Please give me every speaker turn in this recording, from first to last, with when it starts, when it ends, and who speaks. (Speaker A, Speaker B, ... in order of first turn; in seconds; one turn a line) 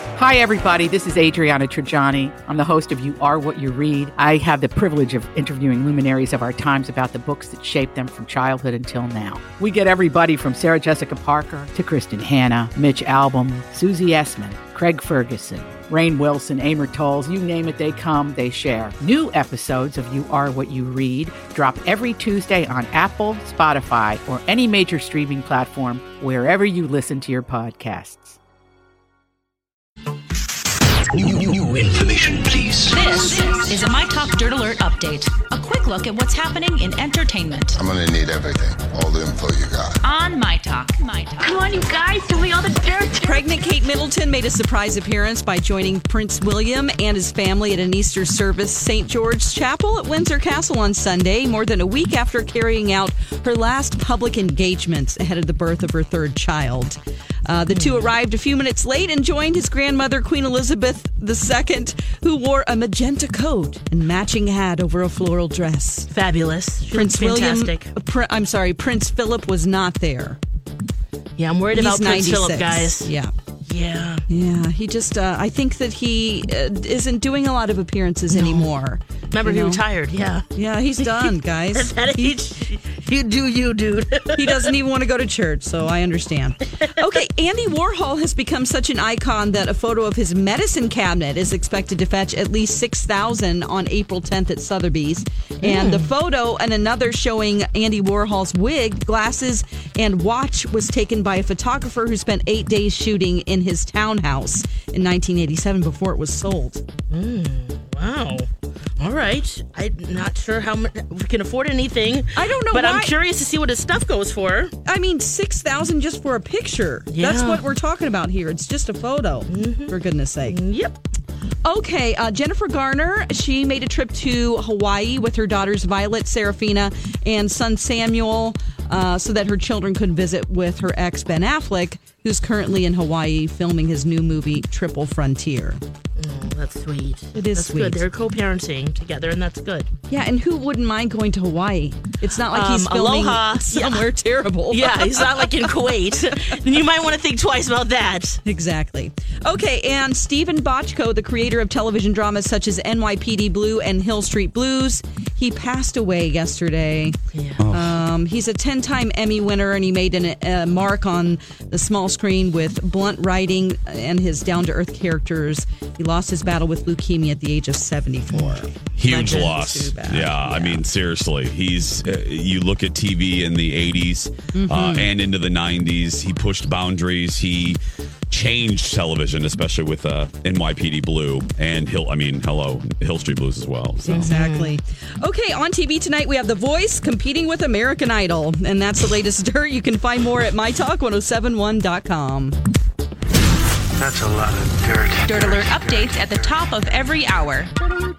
Speaker A: 0.2-28.4
Speaker B: 31.2-33.0
Speaker C: 32.9-37.8
Speaker D: 37.8-40.0
Speaker C: 40.0-42.1
Speaker E: 41.4-43.4
Speaker F: 43.2-66.1
Speaker G: 57.7-58.0
Speaker G: 66.1-67.9
Speaker F: 66.9-70.4
Speaker G: 71.4-73.1
Speaker F: 71.7-73.3
Speaker G: 73.7-74.2
Speaker F: 74.3-79.8
Speaker G: 78.3-78.7
Speaker G: 79.3-80.5
Speaker F: 80.5-82.4
Speaker G: 81.0-84.7
Speaker F: 84.3-106.8
Speaker G: 95.6-96.0
Speaker G: 107.1-114.7
Speaker F: 112.3-113.1
Speaker F: 114.8-120.6
Speaker G: 117.1-117.6
Speaker G: 119.5-119.9
Speaker G: 120.5-121.0
Speaker F: 121.7-135.8
Speaker G: 136.2-139.9
Speaker F: 137.3-138.0
Speaker F: 140.1-145.3
Speaker G: 142.5-144.1
Speaker G: 144.7-148.4
Speaker F: 148.4-157.2
Speaker G: 157.3-157.6
Speaker H: 157.6-157.9
Speaker F: 157.7-170.8
Speaker G: 168.3-169.6
Speaker H: 169.0-177.8
Speaker F: 174.5-175.1
Speaker H: 178.3-184.3
Speaker F: 184.1-192.6
Speaker G: 184.1-184.7
Speaker B: 194.0-196.6
Speaker C: 195.2-197.7